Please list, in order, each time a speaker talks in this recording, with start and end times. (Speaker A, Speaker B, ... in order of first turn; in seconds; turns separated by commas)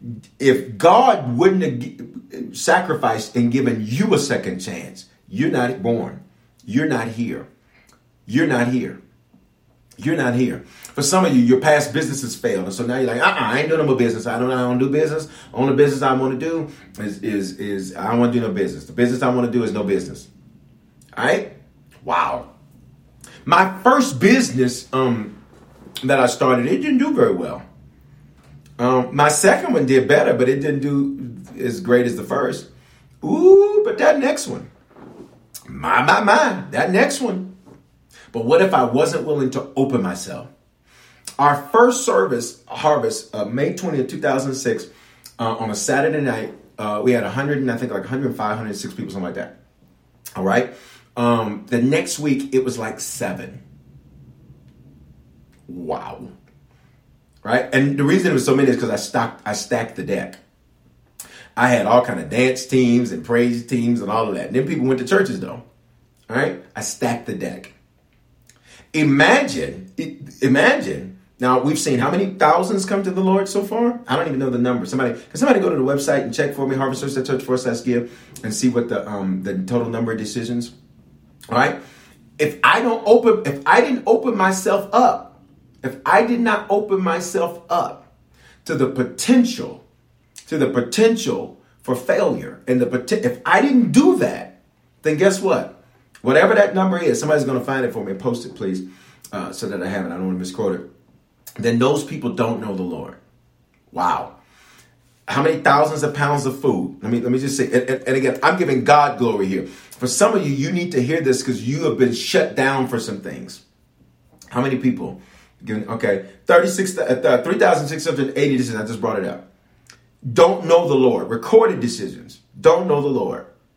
Speaker A: 0.4-7.5, Speaker A: 8.2-9.0, Speaker A: 10.0-20.3, Speaker A: 21.1-21.5, Speaker A: 22.0-22.5, Speaker A: 23.4-25.3, Speaker A: 26.0-27.6, Speaker A: 28.8-32.7, Speaker A: 33.2-34.7, Speaker A: 35.7-37.5, Speaker A: 38.3-40.5, Speaker A: 41.4-44.9, Speaker A: 45.4-49.5, Speaker A: 50.4-53.6, Speaker A: 55.7-56.3, Speaker A: 57.4-60.4, Speaker A: 61.5-65.6, Speaker A: 66.3-67.7, Speaker A: 68.9-80.7, Speaker A: 81.5-81.8, Speaker A: 82.4-88.0, Speaker A: 88.6-89.8, Speaker A: 90.5-94.5, Speaker A: 95.0-100.8, Speaker A: 101.6-103.2, Speaker A: 103.9-104.3, Speaker A: 105.3-113.6, Speaker A: 114.5-119.4, Speaker A: 120.3-123.5